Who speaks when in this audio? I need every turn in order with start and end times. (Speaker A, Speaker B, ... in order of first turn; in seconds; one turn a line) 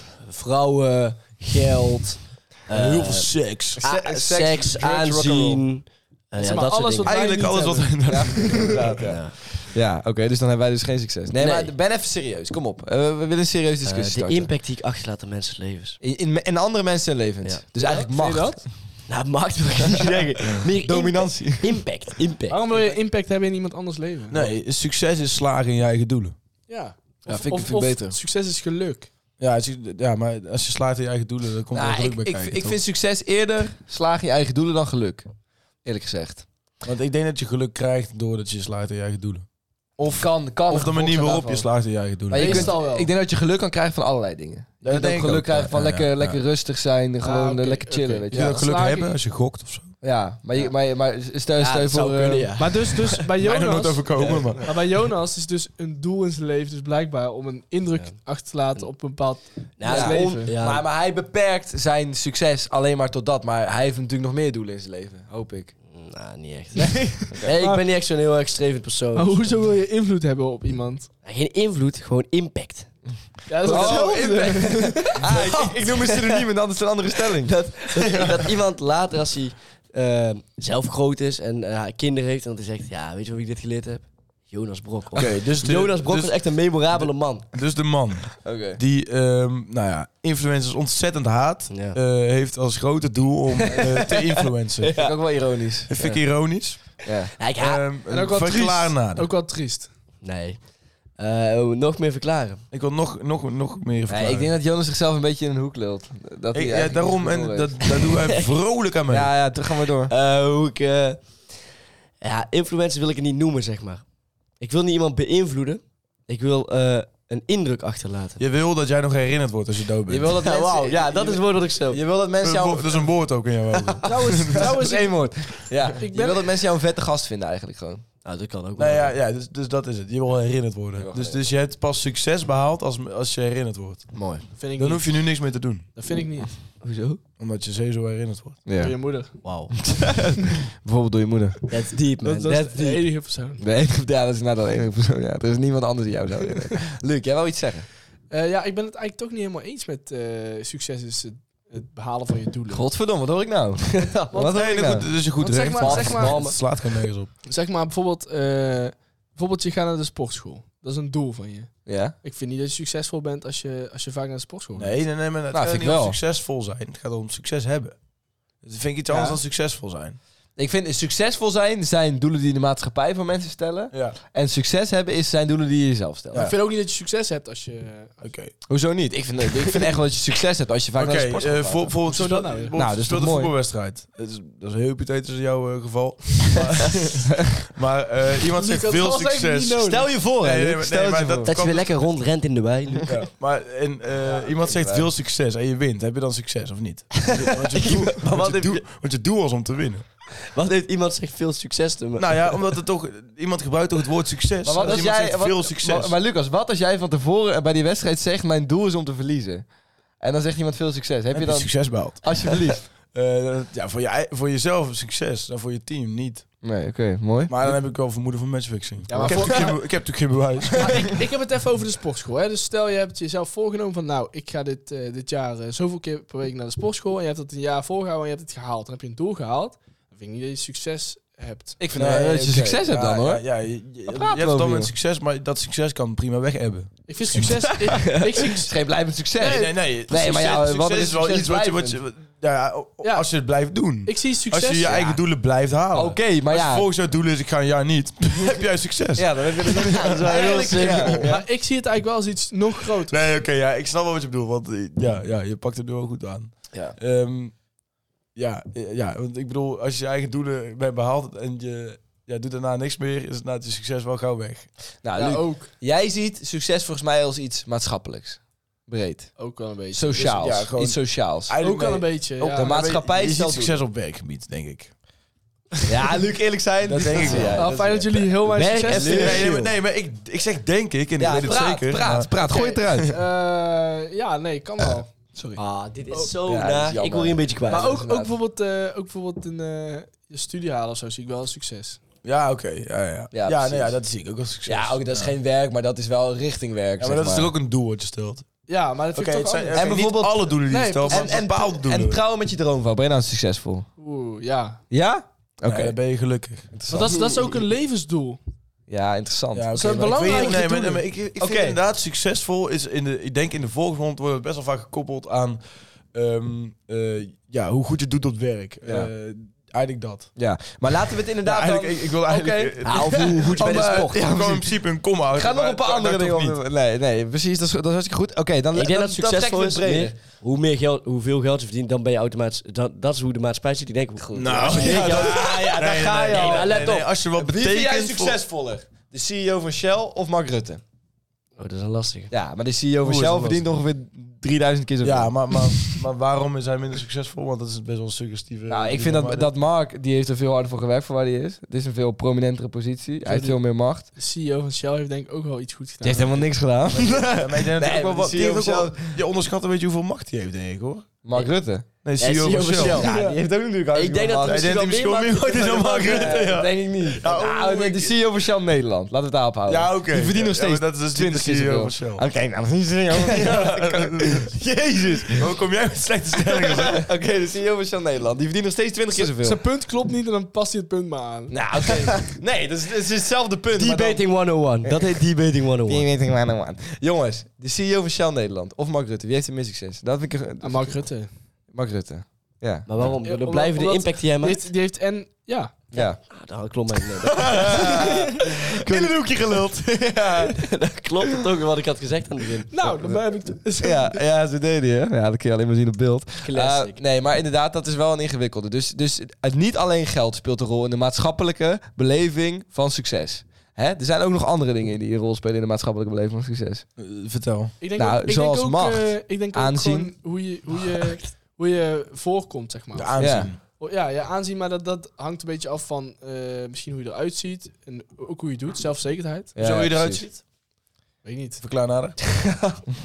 Speaker A: 0.2-7.2
Speaker B: 2.7-3.8
Speaker C: 3.8-5.6
Speaker D: 6.4-8.6
Speaker B: 7.0-9.1
Speaker C: 8.1-14.5
Speaker A: 9.0-9.3
Speaker A: 11.4-11.7
Speaker A: 13.8-16.0
Speaker C: 16.0-18.7
Speaker D: 17.8-18.6
Speaker A: 19.1-22.8
Speaker C: 20.8-21.8
Speaker D: 22.5-24.5
Speaker B: 24.3-26.3
Speaker D: 26.7-29.1
Speaker C: 27.2-28.1
Speaker B: 29.4-32.8
Speaker C: 31.7-35.3
Speaker C: 35.8-36.4
Speaker B: 36.8-39.5
Speaker B: 40.0-42.7
Speaker C: 40.0-41.7
Speaker C: 42.3-48.5
Speaker D: 42.3-43.1
Speaker B: 44.8-46.4
Speaker D: 47.2-49.1
Speaker B: 48.3-49.9
Speaker C: 50.0-52.5
Speaker A: 51.6-53.0
Speaker D: 52.6-60.5
Speaker B: 53.4-54.7
Speaker C: 54.3-54.6
Speaker A: 59.8-60.9
Speaker C: 59.8-65.7
Speaker A: 65.8-69.5
Speaker C: 66.8-67.5
Speaker D: 67.3-67.8
Speaker D: 69.1-71.1
Speaker A: 71.2-72.9
Speaker D: 73.5-75.3
Speaker C: 73.6-77.7
Speaker A: 73.7-74.0
Speaker A: 75.3-76.5
Speaker A: 77.2-87.5
Speaker B: 78.0-78.3
Speaker B: 85.1-94.9
Speaker C: 88.4-88.8
Speaker A: 91.7-92.0
Speaker C: 93.6-94.3
Speaker C: 94.8-96.2
Speaker A: 94.8-95.1
Speaker B: 95.9-99.3
Speaker C: 97.0-97.3
Speaker A: 97.4-97.8
Speaker D: 98.1-99.9
Speaker A: 100.2-100.6
Speaker A: 101.2-102.6
Speaker B: 102.7-104.5
Speaker C: 104.1-107.9
Speaker B: 106.5-109.3
Speaker C: 109.1-110.1
Speaker A: 110.1-111.5
Speaker A: 112.2-114.0
Speaker A: 114.6-118.4
Speaker B: 118.4-120.3
Speaker C: 120.1-123.1
Speaker A: 120.3-122.0
Speaker B: 122.4-124.7
Speaker D: 124.0-126.5
Speaker C: 124.5-128.0
Speaker A: 128.2-129.1
Speaker B: 128.8-134.1
Speaker C: 130.9-131.4
Speaker D: 134.6-135.3
Speaker B: 134.8-135.9
Speaker D: 135.9-136.6
Speaker A: 136.8-137.2
Speaker B: 137.4-138.6
Speaker C: 138.7-139.0
Speaker D: 138.8-139.4
Speaker A: 139.4-139.9
Speaker C: 139.9-141.6
Speaker A: 141.7-143.0
Speaker D: 142.2-143.6
Speaker C: 143.6-147.9
Speaker D: 148.3-152.9
Speaker C: 152.7-155.2
Speaker A: 153.9-154.3
Speaker D: 154.3-156.4
Speaker B: 154.4-157.3
Speaker C: 155.8-156.2
Speaker A: 155.9-156.6
Speaker D: 157.4-161.7
Speaker C: 161.8-162.1
Speaker D: 162.2-165.0
Speaker B: 164.8-168.0
Speaker C: 165.5-166.2
Speaker B: 168.6-170.2
Speaker D: 169.1-169.4
Speaker C: 170.6-176.5
Speaker B: 173.9-174.2
Speaker D: 176.3-178.2
Speaker B: 178.2-178.5
Speaker C: 178.7-181.9
Speaker B: 180.9-191.9
Speaker D: 182.1-182.7
Speaker C: 182.7-183.5
Speaker D: 188.6-190.1
Speaker C: 189.8-191.6
Speaker A: 191.4-193.2
Speaker B: 193.1-200.2
Speaker C: 194.6-195.1
Speaker A: 197.3-198.8
Speaker A: 200.4-202.6
Speaker B: 202.2-206.1
Speaker C: 204.6-212.9
Speaker B: 211.3-216.5
Speaker C: 216.6-217.5
Speaker B: 217.5-221.1
Speaker D: 219.1-219.8
Speaker C: 219.2-219.5
Speaker D: 220.7-231.8
Speaker C: 231.8-233.4
Speaker B: 231.9-237.4
Speaker C: 234.1-234.9
Speaker D: 237.1-238.8
Speaker C: 237.4-242.0
Speaker B: 239.4-251.2
Speaker D: 243.0-243.3
Speaker D: 244.0-244.9
Speaker A: 244.8-245.1
Speaker C: 244.8-245.2
Speaker C: 245.9-246.9
Speaker C: 249.2-251.4
Speaker A: 249.9-251.3
Speaker D: 250.3-253.1
Speaker B: 252.9-257.6
Speaker B: 258.3-264.7
Speaker C: 265.0-269.4
Speaker D: 265.1-265.7
Speaker D: 269.4-270.6
Speaker C: 269.9-271.6
Speaker B: 270.2-274.9
Speaker D: 271.6-272.8
Speaker C: 272.5-273.8
Speaker C: 275.9-277.7
Speaker B: 276.8-278.3
Speaker A: 277.1-277.6
Speaker D: 277.5-279.5
Speaker A: 278.5-279.7
Speaker C: 278.8-279.5
Speaker B: 278.9-282.3
Speaker C: 281.2-283.1
Speaker D: 282.5-285.1
Speaker A: 285.6-288.0
Speaker C: 286.4-288.3
Speaker D: 287.7-292.0
Speaker B: 292.2-295.3
Speaker C: 293.3-294.0
Speaker C: 294.6-297.5
Speaker B: 297.0-298.4
Speaker D: 298.7-300.1
Speaker B: 299.1-302.2
Speaker C: 299.7-303.9
Speaker D: 300.7-301.5
Speaker D: 304.0-304.8
Speaker C: 304.9-305.9
Speaker B: 305.6-307.1
Speaker C: 306.7-307.6
Speaker D: 306.9-308.4
Speaker C: 308.9-310.6
Speaker B: 309.5-320.3
Speaker D: 309.7-311.0
Speaker C: 311.4-311.8
Speaker C: 318.8-319.1
Speaker C: 320.4-330.1
Speaker B: 321.4-326.6
Speaker A: 322.8-324.3
Speaker A: 328.7-335.6
Speaker C: 334.2-340.8
Speaker B: 334.3-338.4
Speaker A: 336.3-337.0
Speaker A: 341.6-342.3
Speaker C: 342.3-345.9
Speaker B: 343.0-343.6
Speaker B: 345.0-349.5
Speaker C: 348.7-354.1
Speaker D: 353.2-356.5
Speaker C: 356.0-359.2
Speaker B: 357.0-361.1
Speaker C: 361.2-361.9
Speaker B: 362.0-363.1
Speaker A: 362.2-363.1
Speaker C: 362.9-364.7
Speaker D: 362.9-363.4
Speaker A: 363.9-366.6
Speaker B: 364.4-368.1
Speaker C: 366.0-375.5
Speaker B: 369.7-372.2
Speaker B: 373.1-374.6
Speaker B: 375.2-377.1
Speaker C: 376.4-379.6
Speaker D: 379.1-381.6
Speaker C: 381.5-384.2
Speaker A: 383.7-386.1
Speaker C: 384.8-385.1
Speaker C: 385.8-391.1
Speaker D: 390.6-391.3
Speaker C: 391.7-392.9
Speaker A: 392.9-394.7
Speaker D: 393.2-395.8
Speaker C: 395.9-396.2
Speaker A: 395.9-398.0
Speaker B: 397.4-397.8
Speaker C: 397.5-400.6
Speaker B: 398.8-400.4
Speaker A: 400.6-402.8
Speaker D: 402.7-404.2
Speaker C: 403.8-416.8
Speaker A: 406.4-407.0
Speaker B: 417.0-417.7
Speaker D: 417.8-429.6
Speaker C: 417.9-420.1
Speaker B: 422.9-423.6
Speaker C: 423.2-423.5
Speaker C: 429.5-430.3
Speaker B: 429.6-430.4
Speaker D: 431.2-431.6
Speaker B: 431.6-432.7